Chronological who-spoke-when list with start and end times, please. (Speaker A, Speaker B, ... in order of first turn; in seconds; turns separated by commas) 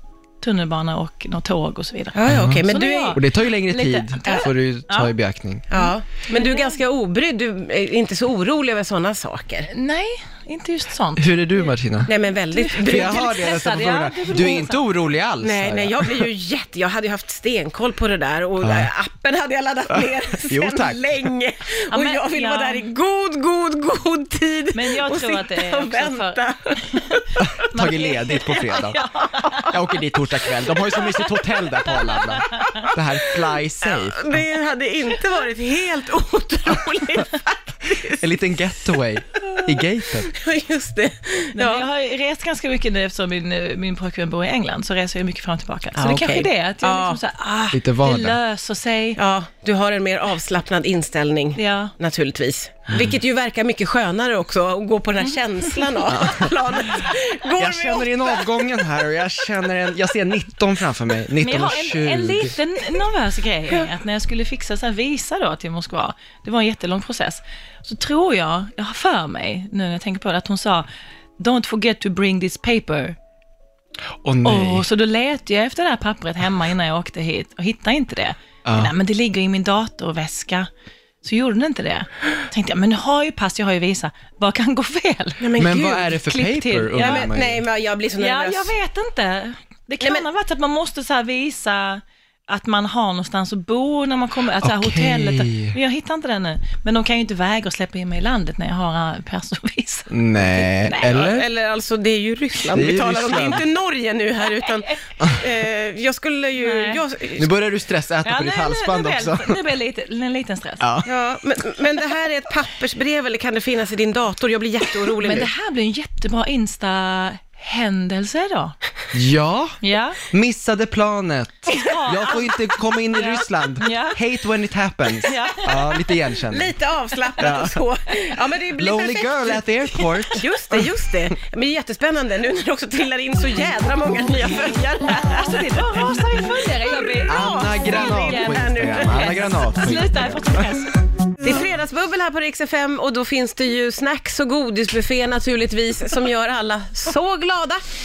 Speaker A: 0.4-5.1, Speaker B: 2.1-3.2, Speaker C: 2.2-5.7, Speaker B: 5.7-9.7, Speaker A: 5.7-6.8, Speaker A: 9.7-11.6, Speaker C: 11.2-12.1, Speaker B: 12.1-13.5, Speaker A: 12.5-14.8, Speaker C: 12.8-16.3, Speaker B: 15.4-27.2, Speaker C: 18.6-18.9, Speaker C: 19.9-21.3, Speaker A: 21.9-22.8, Speaker A: 24.7-29.8, Speaker C: 27.4-29.0, Speaker C: 29.6-34.4, Speaker A: 32.0-32.9, Speaker B: 33.8-38.3, Speaker C: 38.0-40.3, Speaker B: 40.3-41.8, Speaker A: 41.5-49.2, Speaker B: 46.0-47.2, Speaker C: 47.7-48.4, Speaker B: 49.2-58.6, Speaker A: 51.5-51.9, Speaker C: 56.1-56.5, Speaker C: 57.5-62.5, Speaker A: 61.4-70.9, Speaker A: 71.4-73.2, Speaker C: 74.2-74.8, Speaker A: 74.4-80.7, Speaker C: 78.6-78.9, Speaker A: 81.2-85.5, Speaker B: 85.4-86.2, Speaker C: 85.6-87.6, Speaker A: 86.2-87.3, Speaker B: 86.9-88.7, Speaker A: 88.2-101.1, Speaker C: 94.6-95.8, Speaker C: 100.1-101.5, Speaker B: 100.9-107.5, Speaker C: 102.7-103.6, Speaker A: 104.5-105.0, Speaker A: 106.6-107.0, Speaker C: 107.4-109.6, Speaker A: 108.2-110.8, Speaker C: 110.8-111.1, Speaker B: 111.0-115.5, Speaker A: 115.2-118.8, Speaker C: 119.1-126.7, Speaker A: 119.8-120.2, Speaker A: 121.7-122.5, Speaker A: 123.1-124.2, Speaker A: 125.2-125.8, Speaker B: 126.5-136.0, Speaker C: 127.4-127.8, Speaker C: 128.8-130.8, Speaker A: 135.0-141.0, Speaker B: 136.8-139.4, Speaker C: 137.2-140.6, Speaker B: 141.4-147.8